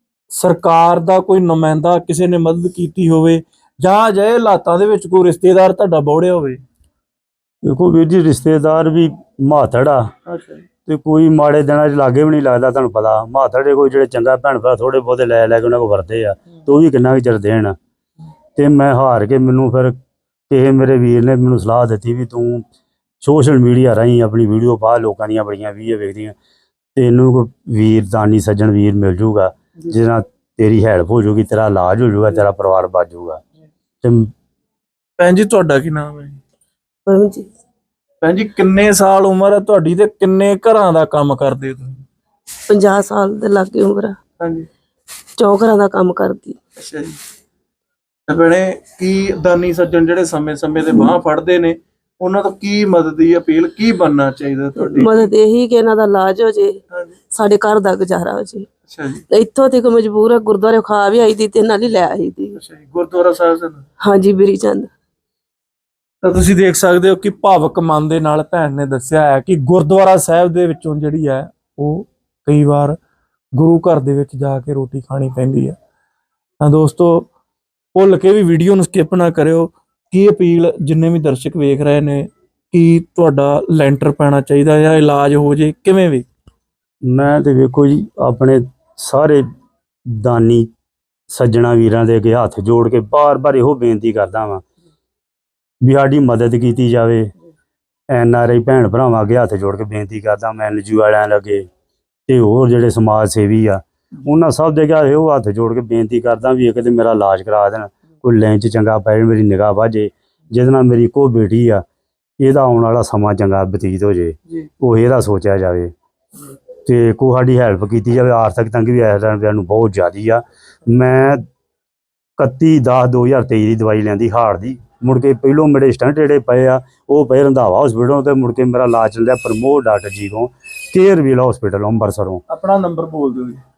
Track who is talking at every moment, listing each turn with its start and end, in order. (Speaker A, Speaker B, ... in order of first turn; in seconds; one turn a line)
Speaker A: 0.3-6.6
Speaker B: 7.6-10.1
Speaker A: 10.2-10.6
Speaker B: 10.8-17.8
Speaker B: 18.6-19.9
Speaker B: 20.5-22.6
Speaker B: 23.2-26.4
Speaker B: 26.9-33.4
Speaker B: 34.0-34.3
Speaker A: 35.2-36.4
Speaker C: 37.0-37.5
Speaker A: 38.2-42.0
Speaker C: 42.7-44.1
Speaker A: 44.4-44.7
Speaker C: 45.4-46.6
Speaker A: 46.8-47.2
Speaker A: 48.3-55.3
Speaker C: 54.8-56.8
Speaker C: 57.3-58.7
Speaker A: 58.9-59.2
Speaker C: 59.3-62.6
Speaker A: 62.5-63.9
Speaker C: 64.0-64.9
Speaker A: 66.2-73.0
Speaker A: 73.5-75.8
Speaker A: 76.6-77.3
Speaker A: 77.9-86.2
Speaker B: 87.0-89.4
Speaker B: 90.1-90.7
Speaker B: 91.3-94.6
Speaker B: 95.8-97.3
Speaker B: 98.1-101.7
Speaker B: 102.3-111.8
Speaker B: 112.4-115.9
Speaker B: 116.8-121.4
Speaker B: 122.4-132.4
Speaker A: 132.5-133.6